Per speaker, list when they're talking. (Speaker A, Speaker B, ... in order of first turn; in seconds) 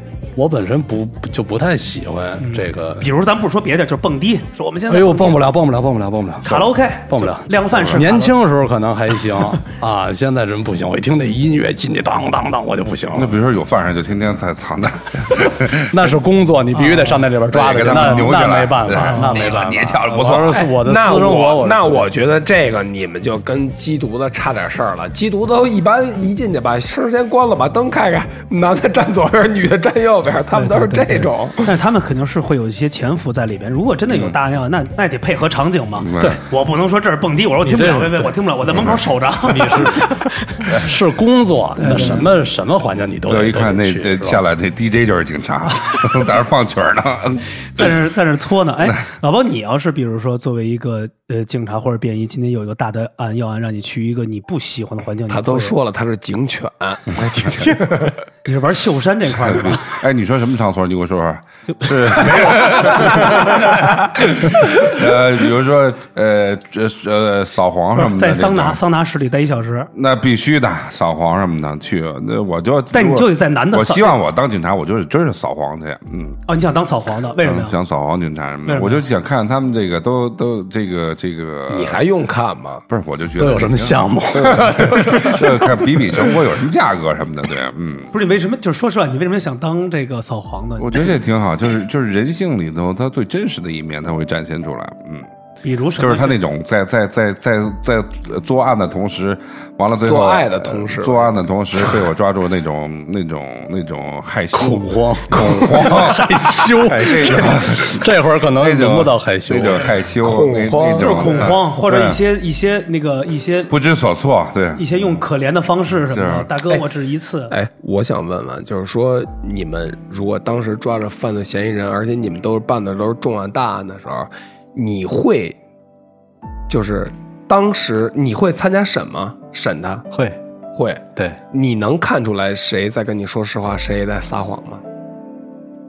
Speaker A: 0.3-3.1, 4.9-13.4, 15.7-22.1, 37.6-38.4, 39.4-44.4, 83.4-85.5, 104.5-109.9, 130.1-130.4
Speaker B: 2.4-5.4, 6.4-8.3, 16.7-17.2, 18.0-18.3, 19.0-19.4, 30.5-40.8, 41.8-42.3, 47.8-55.8, 58.4-59.9, 61.8-63.4, 67.9-69.9, 72.9-74.2, 76.5-77.8, 78.7-79.0, 88.1-91.0, 95.6-96.4, 110.9-113.7, 114.8-117.5
Speaker C: 7.7-8.0, 13.1-16.1, 17.5-20.7, 36.0-36.4, 43.2-48.0, 59.3-68.8, 69.9-76.4, 77.4-82.0, 82.9-88.1, 90.8-95.3, 96.0-112.2, 113.7-115.0, 116.1-116.5
Speaker D: 20.4-31.7, 55.3-58.2, 81.7-82.8, 84.4-85.7, 100.0-101.3, 105.4-105.9, 106.9-107.2, 110.2-111.6, 117.5-125.6, 126.7-130.0, 130.8-134.8